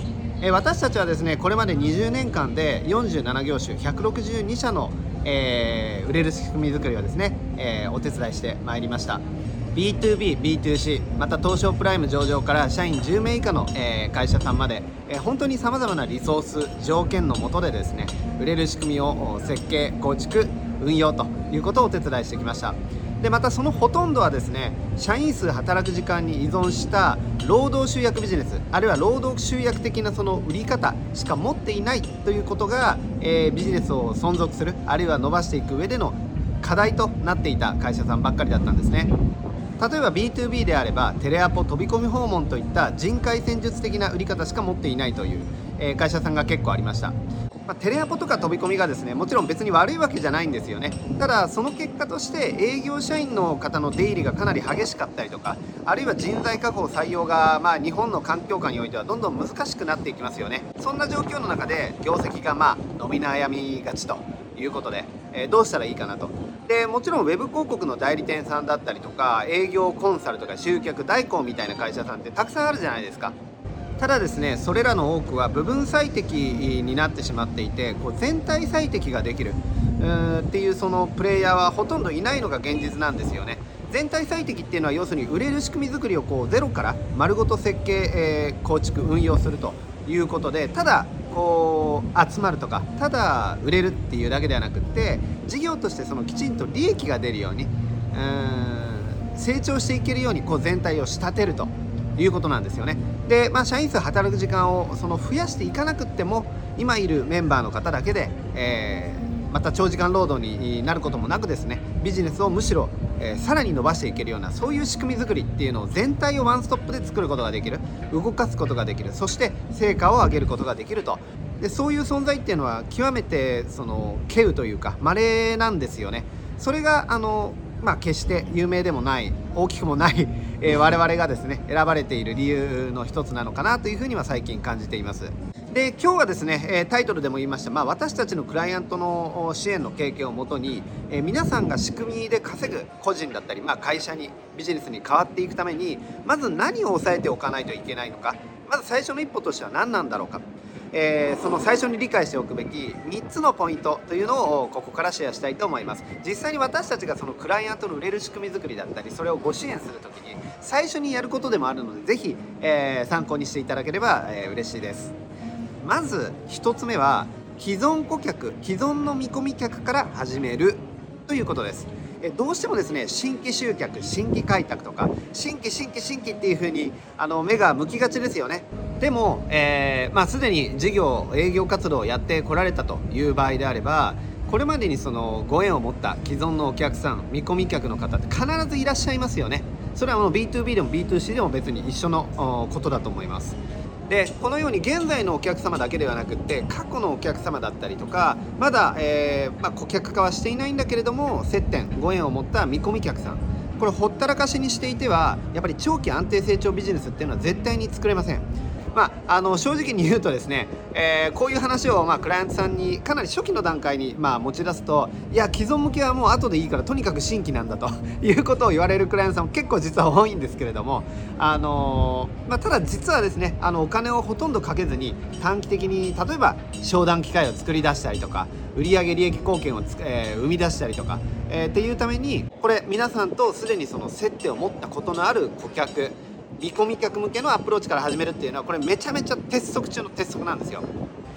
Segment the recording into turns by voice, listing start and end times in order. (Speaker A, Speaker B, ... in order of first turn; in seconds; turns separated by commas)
Speaker A: 0.4-9.2, Speaker A: 9.7-39.1, Speaker A: 39.8-73.3, Speaker A: 74.0-165.2, Speaker A: 165.8-193.6, Speaker A: 194.1-240.9